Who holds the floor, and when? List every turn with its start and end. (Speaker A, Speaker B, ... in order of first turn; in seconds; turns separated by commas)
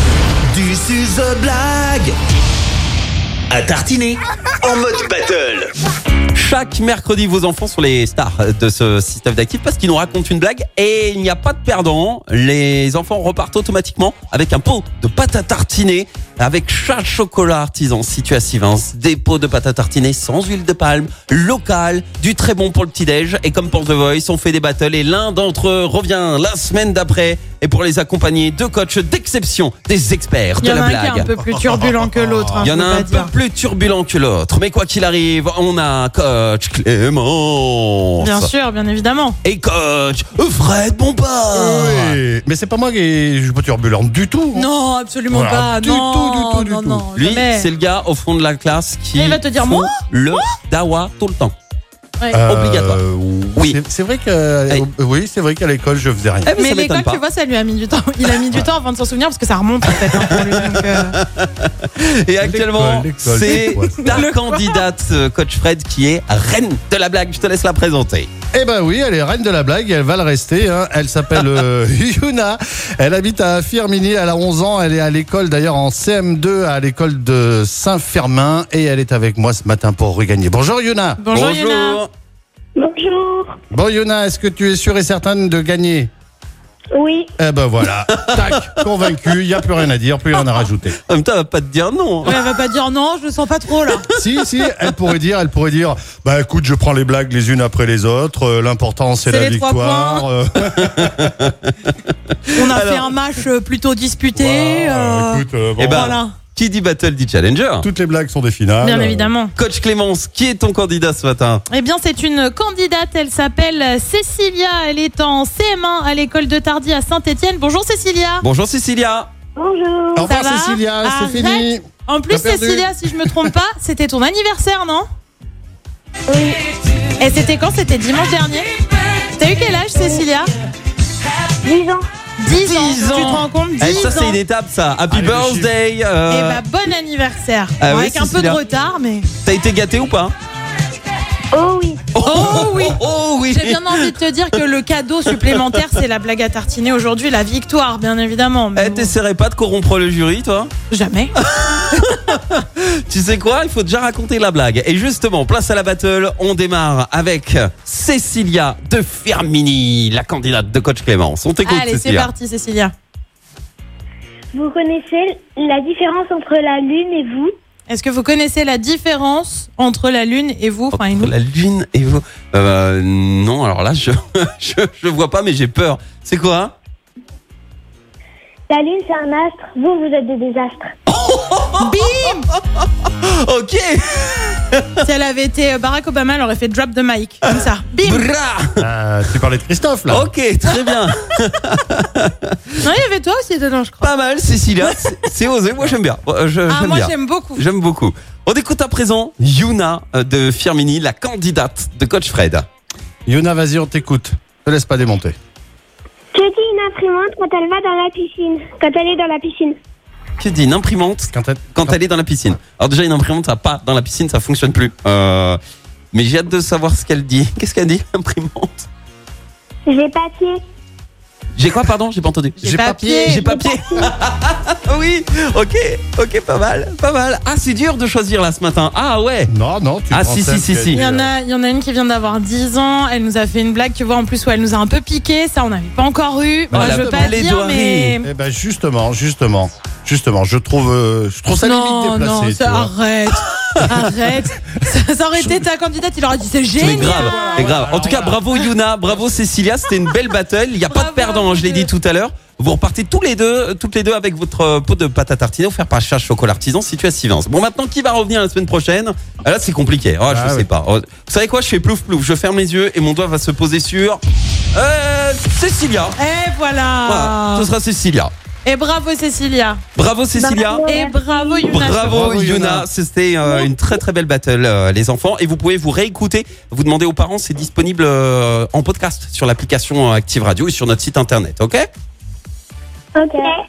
Speaker A: 0.5-2.1, Speaker A: 3.5-5.7, Speaker B: 6.3-31.3, Speaker C: 30.6-33.3, Speaker D: 31.4-32.7, Speaker B: 32.6-38.5, Speaker C: 38.2-39.4, Speaker B: 39.4-42.2, Speaker D: 41.5-44.7, Speaker C: 44.5-47.7, Speaker D: 45.3-47.0, Speaker B: 47.1-51.5, Speaker C: 49.1-50.0, Speaker D: 52.3-56.5, Speaker B: 52.4-53.0, Speaker B: 56.4-57.2, Speaker C: 56.6-61.2, Speaker B: 60.1-68.3, Speaker D: 62.4-64.3, Speaker C: 63.4-64.8, Speaker D: 68.5-81.2, Speaker C: 81.2-82.0, Speaker B: 81.3-82.1, Speaker E: 82.8-83.5, Speaker D: 83.7-86.1, Speaker E: 86.9-87.3, Speaker D: 87.4-91.0, Speaker B: 88.3-88.7, Speaker B: 90.6-92.5, Speaker C: 92.2-94.1, Speaker D: 94.1-101.3, Speaker C: 99.3-100.2, Speaker B: 100.8-101.9, Speaker C: 102.5-105.4, Speaker B: 102.7-103.1, Speaker D: 104.3-106.2, Speaker B: 105.8-107.8, Speaker C: 106.0-106.4, Speaker D: 107.8-109.3, Speaker C: 108.8-109.5, Speaker B: 109.5-111.6, Speaker C: 111.7-118.5, Speaker B: 118.4-119.3, Speaker E: 119.5-120.2, Speaker D: 120.2-123.5, Speaker C: 120.2-125.0, Speaker E: 126.3-126.6, Speaker C: 127.2-130.5, Speaker E: 131.6-132.1, Speaker C: 132.4-134.4, Speaker B: 132.5-136.6, Speaker D: 135.1-135.7, Speaker C: 136.3-139.3, Speaker B: 137.8-138.6, Speaker B: 139.4-140.3, Speaker E: 141.5-142.1, Speaker B: 142.1-144.1, Speaker C: 142.2-149.1, Speaker B: 145.6-145.9, Speaker B: 148.7-150.7, Speaker C: 150.9-151.3, Speaker B: 151.4-162.3, Speaker C: 161.6-162.9, Speaker E: 164.5-167.5, Speaker C: 167.9-171.3, Speaker B: 170.9-176.7, Speaker E: 178.7-180.9, Speaker B: 181.1-184.9, Speaker C: 181.8-182.5, Speaker C: 185.0-188.3, Speaker B: 188.0-188.7, Speaker D: 188.8-190.3, Speaker B: 190.1-192.6, Speaker C: 190.6-190.9, Speaker C: 192.8-194.1, Speaker B: 194.0-202.7, Speaker C: 194.8-195.5, Speaker C: 196.7-197.7, Speaker D: 203.3-205.3, Speaker E: 206.3-209.8, Speaker B: 210.4-215.6, Speaker D: 211.3-212.0, Speaker B: 216.1-218.9, Speaker E: 219.9-220.6, Speaker B: 221.6-229.5, Speaker C: 222.6-223.4, Speaker D: 222.6-223.7, Speaker D: 229.5-231.3, Speaker B: 230.1-231.0, Speaker C: 230.9-238.3, Speaker D: 236.7-237.4, Speaker B: 236.7-238.2, Speaker D: 238.2-242.9, Speaker C: 241.6-247.6, Speaker D: 246.8-248.5, Speaker B: 246.8-264.2, Speaker D: 249.1-249.4, Speaker C: 250.9-251.9, Speaker D: 260.3-260.7, Speaker B: 264.7-266.2, Speaker C: 266.1-267.7, Speaker B: 267.1-268.3, Speaker C: 268.6-269.8, Speaker B: 269.9-270.9, Speaker E: 270.4-271.7, Speaker C: 270.9-272.1, Speaker B: 271.6-281.9, Speaker D: 271.9-272.9, Speaker E: 283.2-283.5